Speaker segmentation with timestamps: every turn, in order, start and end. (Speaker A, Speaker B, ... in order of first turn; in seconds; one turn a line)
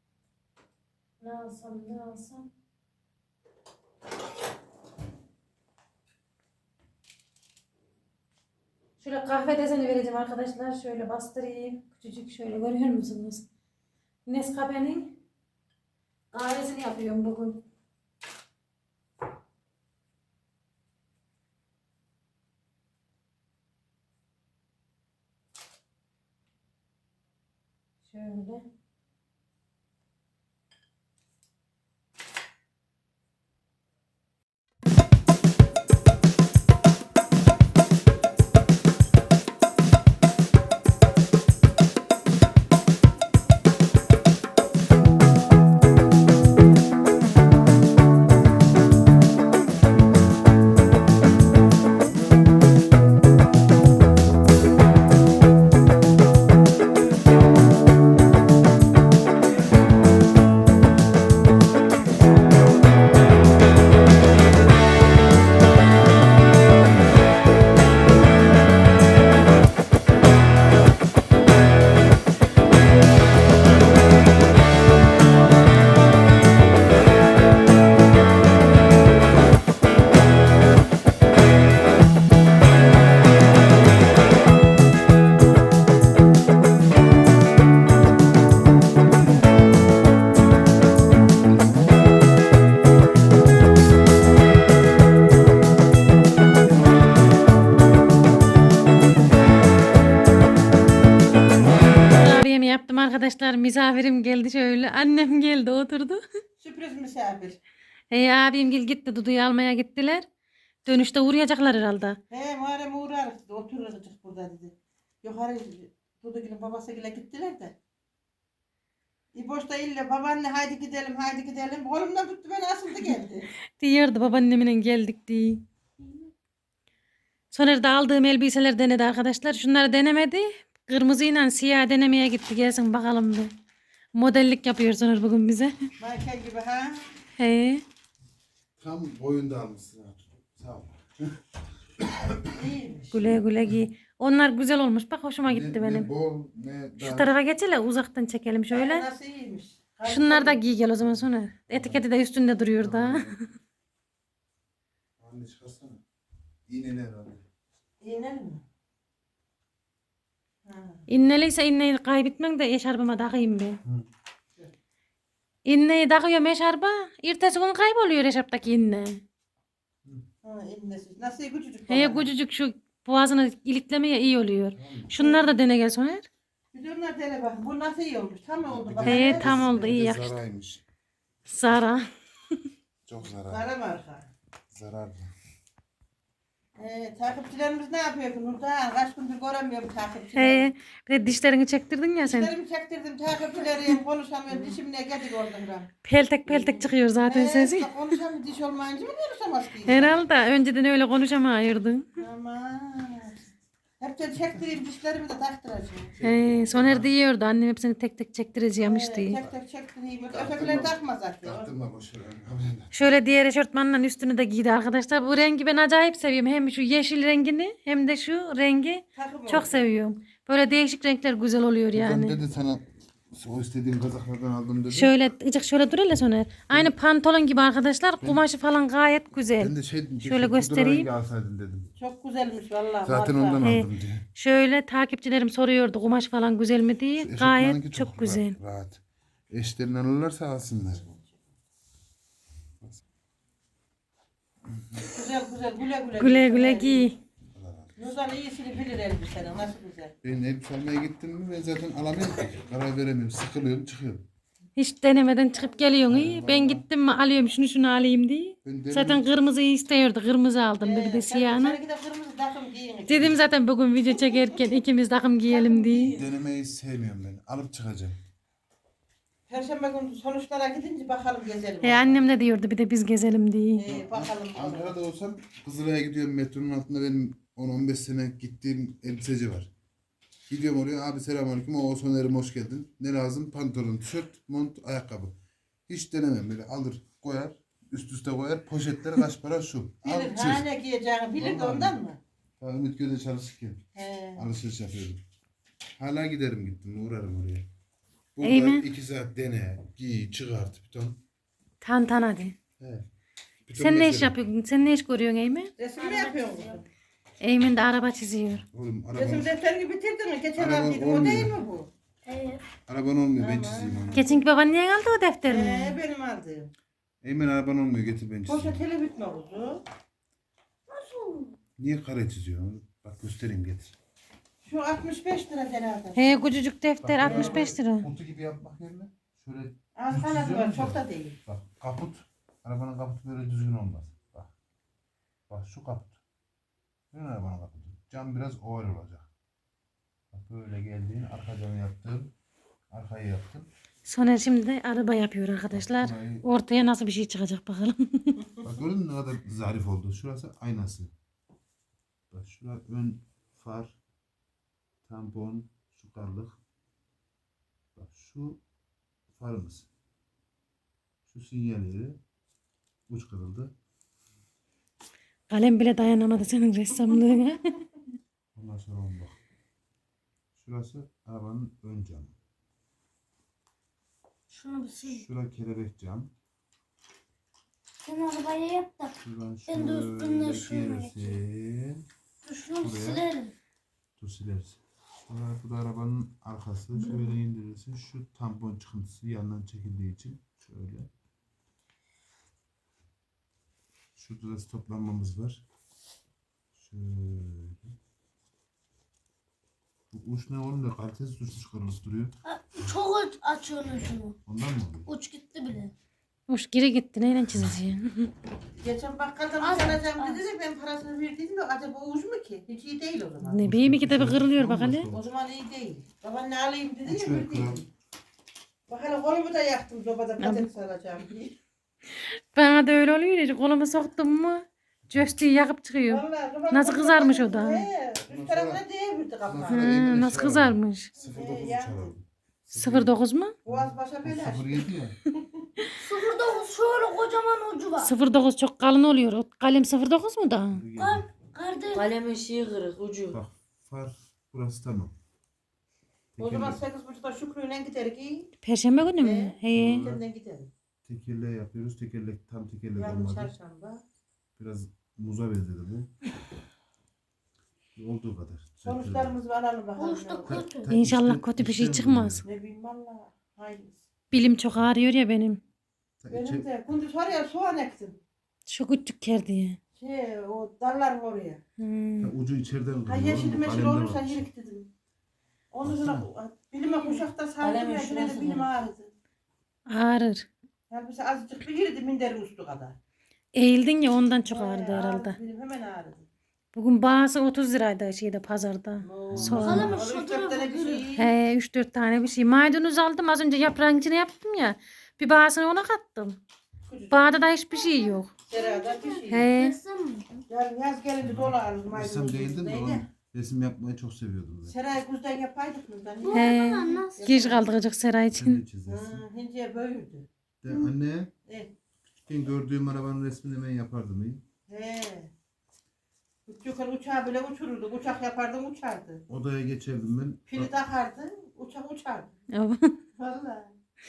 Speaker A: 1.2-2.5
Speaker A: 9.0-13.4
Speaker A: 14.2-15.2
Speaker A: 16.3-17.6
Speaker A: 28.0-28.6
Speaker B: 91.4-92.0
Speaker A: 102.1-106.2
Speaker C: 106.6-107.6
Speaker A: 108.1-110.3
Speaker A: 110.8-112.2
Speaker C: 112.3-117.7
Speaker C: 119.3-123.5
Speaker A: 123.8-125.6
Speaker A: 127.5-133.5
Speaker A: 134.1-135.9
Speaker C: 136.0-137.1
Speaker A: 137.4-137.8
Speaker B: 138.8-141.4
Speaker B: 142.0-142.5
Speaker C: 142.5-143.2
Speaker A: 143.1-146.1
Speaker B: 145.4-147.3
Speaker A: 147.0-149.0
Speaker C: 148.7-150.6
Speaker A: 150.1-153.4
Speaker B: 151.0-152.0
Speaker B: 152.8-153.3
Speaker B: 155.2-156.0
Speaker B: 156.7-157.4
Speaker C: 158.0-158.6
Speaker C: 160.6-161.0
Speaker A: 161.1-163.8
Speaker A: 165.7-169.2
Speaker C: 170.4-172.3
Speaker A: 171.9-176.3
Speaker B: 174.7-175.1
Speaker C: 175.2-175.5
Speaker C: 176.7-179.9
Speaker B: 178.7-180.8
Speaker A: 179.0-180.4
Speaker A: 181.4-182.6
Speaker B: 183.1-183.6
Speaker C: 183.4-184.3
Speaker B: 184.7-185.3
Speaker C: 186.8-190.7
Speaker A: 190.3-192.5
Speaker C: 192.2-195.9
Speaker A: 196.0-197.9
Speaker C: 196.5-200.1
Speaker A: 199.9-202.1
Speaker C: 202.2-203.4
Speaker C: 204.0-206.1
Speaker B: 206.2-207.1
Speaker A: 206.2-209.4
Speaker C: 208.8-211.7
Speaker B: 210.3-212.9
Speaker A: 212.9-222.4
Speaker C: 219.2-219.8
Speaker B: 221.9-225.1
Speaker A: 224.9-231.1
Speaker B: 229.6-231.9
Speaker C: 232.0-233.8
Speaker B: 233.0-234.2
Speaker A: 233.6-238.6
Speaker B: 237.2-241.1
Speaker C: 240.9-241.4
Speaker B: 244.7-245.1
Speaker C: 245.1-247.1
Speaker A: 246.2-247.2
Speaker B: 247.5-247.9
Speaker C: 248.0-250.1
Speaker B: 250.2-254.3
Speaker A: 254.8-261.8
Speaker B: 256.1-256.8
Speaker B: 258.6-259.2
Speaker C: 260.8-263.4
Speaker A: 263.1-266.2
Speaker C: 264.1-264.8
Speaker C: 265.5-266.2
Speaker B: 266.0-268.2
Speaker C: 269.5-272.2
Speaker A: 271.8-273.8
Speaker C: 273.8-274.9
Speaker B: 273.8-279.7
Speaker B: 280.5-285.3
Speaker B: 285.9-290.7
Speaker C: 290.0-292.2
Speaker B: 291.4-292.0
Speaker B: 292.6-293.8
Speaker C: 293.9-294.5
Speaker B: 294.4-295.2
Speaker B: 296.0-297.7
Speaker B: 298.4-301.2
Speaker A: 298.4-298.9
Speaker A: 301.8-302.6
Speaker B: 302.8-303.1
Speaker B: 303.6-304.3
Speaker A: 303.8-305.7
Speaker C: 305.8-306.8
Speaker D: 306.0-306.8
Speaker A: 307.4-308.6
Speaker B: 308.7-309.5
Speaker C: 309.1-311.9
Speaker B: 310.6-311.5
Speaker D: 312.2-312.6
Speaker B: 312.9-314.2
Speaker C: 313.4-314.3
Speaker A: 314.1-316.0
Speaker C: 315.5-316.7
Speaker B: 317.2-318.8
Speaker C: 318.4-319.8
Speaker D: 320.9-321.6
Speaker B: 321.8-323.9
Speaker C: 324.6-326.4
Speaker A: 326.1-328.1
Speaker B: 327.0-334.5
Speaker C: 327.2-327.7
Speaker C: 329.9-331.4
Speaker B: 335.5-336.2
Speaker B: 337.1-339.3
Speaker B: 340.3-342.3
Speaker B: 342.9-343.7
Speaker A: 344.1-348.4
Speaker B: 345.7-346.4
Speaker B: 348.6-351.1
Speaker B: 352.3-354.0
Speaker B: 355.0-356.6
Speaker B: 357.9-358.6
Speaker B: 359.3-359.9
Speaker B: 361.2-362.2
Speaker B: 363.1-363.7
Speaker A: 365.5-367.8
Speaker B: 368.5-369.4
Speaker B: 370.6-372.3
Speaker D: 374.5-375.2
Speaker B: 375.1-376.3
Speaker D: 378.0-381.4
Speaker B: 379.2-382.0
Speaker D: 382.4-383.5
Speaker B: 382.8-383.3
Speaker B: 384.2-391.1
Speaker D: 386.9-387.3
Speaker B: 394.2-395.6
Speaker B: 396.8-397.9
Speaker B: 400.1-402.3
Speaker D: 402.4-404.4
Speaker B: 404.4-405.1
Speaker D: 405.1-405.9
Speaker A: 406.5-408.3
Speaker C: 408.8-413.6
Speaker D: 409.6-410.4
Speaker A: 413.4-415.1
Speaker B: 413.6-415.3
Speaker C: 415.1-417.9
Speaker B: 417.1-417.8
Speaker C: 418.9-421.6
Speaker A: 420.4-420.6
Speaker A: 422.1-427.9
Speaker C: 426.1-429.9
Speaker B: 428.3-428.8
Speaker B: 429.4-433.1
Speaker A: 429.7-431.1
Speaker C: 431.2-432.1
Speaker A: 432.7-433.5
Speaker C: 433.6-435.7
Speaker B: 433.6-435.1
Speaker D: 436.0-438.1
Speaker A: 438.0-440.8
Speaker B: 440.7-441.3
Speaker D: 441.0-442.1
Speaker E: 441.9-443.4
Speaker B: 443.3-445.1
Speaker B: 446.3-446.8
Speaker C: 446.4-448.5
Speaker A: 448.6-450.1
Speaker C: 449.2-450.7
Speaker B: 449.7-450.2
Speaker B: 451.0-453.5
Speaker C: 452.9-454.0
Speaker B: 454.6-456.1
Speaker B: 457.9-459.4
Speaker C: 458.8-460.6
Speaker D: 460.0-460.9
Speaker B: 460.4-462.4
Speaker A: 460.9-462.4
Speaker C: 462.4-464.0
Speaker A: 464.3-465.6
Speaker B: 466.2-466.7
Speaker C: 466.3-468.2
Speaker A: 468.7-469.8
Speaker C: 469.9-471.6
Speaker A: 471.8-472.3
Speaker B: 472.2-474.5
Speaker C: 473.1-474.9
Speaker C: 475.7-479.1
Speaker B: 475.8-476.3
Speaker E: 477.6-478.7
Speaker A: 479.9-480.5
Speaker C: 480.9-483.0
Speaker A: 483.5-485.4
Speaker C: 484.5-486.2
Speaker A: 486.7-489.9
Speaker C: 489.0-491.3
Speaker B: 489.3-490.0
Speaker D: 489.5-491.1
Speaker A: 491.2-496.4
Speaker C: 496.9-499.5
Speaker A: 497.1-498.3
Speaker D: 498.5-500.4
Speaker A: 499.3-499.8
Speaker C: 500.5-503.1
Speaker B: 501.2-504.8
Speaker C: 504.7-507.6
Speaker D: 506.2-507.2
Speaker A: 506.3-508.6
Speaker B: 508.3-509.2
Speaker C: 508.9-510.9
Speaker B: 510.6-511.3
Speaker C: 511.4-511.7
Speaker B: 512.1-514.4
Speaker C: 514.7-515.3
Speaker C: 516.5-519.2
Speaker B: 519.3-520.7
Speaker C: 520.5-522.4
Speaker A: 522.5-523.0
Speaker C: 523.1-523.7